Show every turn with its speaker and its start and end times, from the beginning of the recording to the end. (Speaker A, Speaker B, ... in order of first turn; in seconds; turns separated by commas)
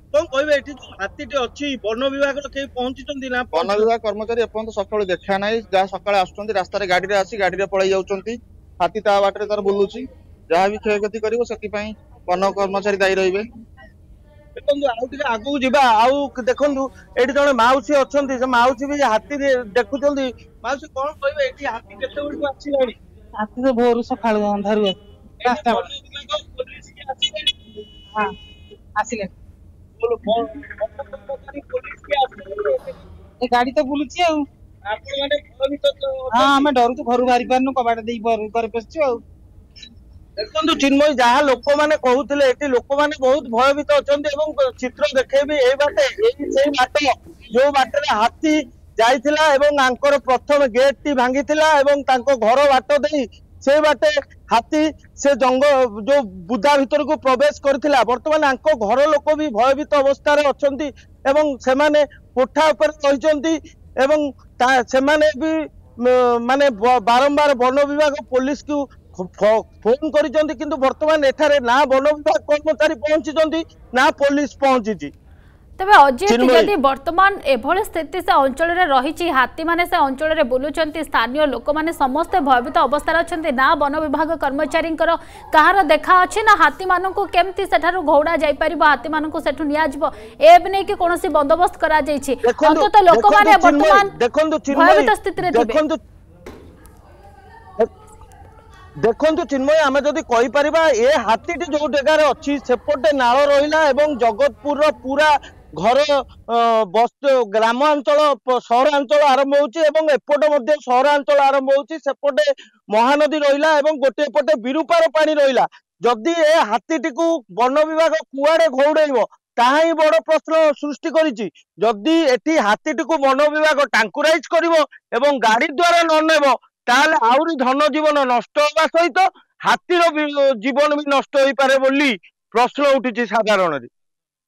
Speaker A: 0.1-3.9, Speaker B: 3.5-13.4, Speaker A: 14.6-22.9, Speaker C: 23.4-25.9, Speaker A: 25.4-27.5, Speaker C: 29.0-29.3, Speaker A: 30.0-33.0, Speaker C: 33.4-34.4, Speaker A: 34.9-36.7, Speaker C: 36.3-39.2, Speaker A: 40.4-75.1, Speaker D: 75.8-94.1, Speaker A: 76.3-76.7, Speaker A: 92.4-96.0, Speaker D: 94.7-95.8, Speaker A: 99.0-133.9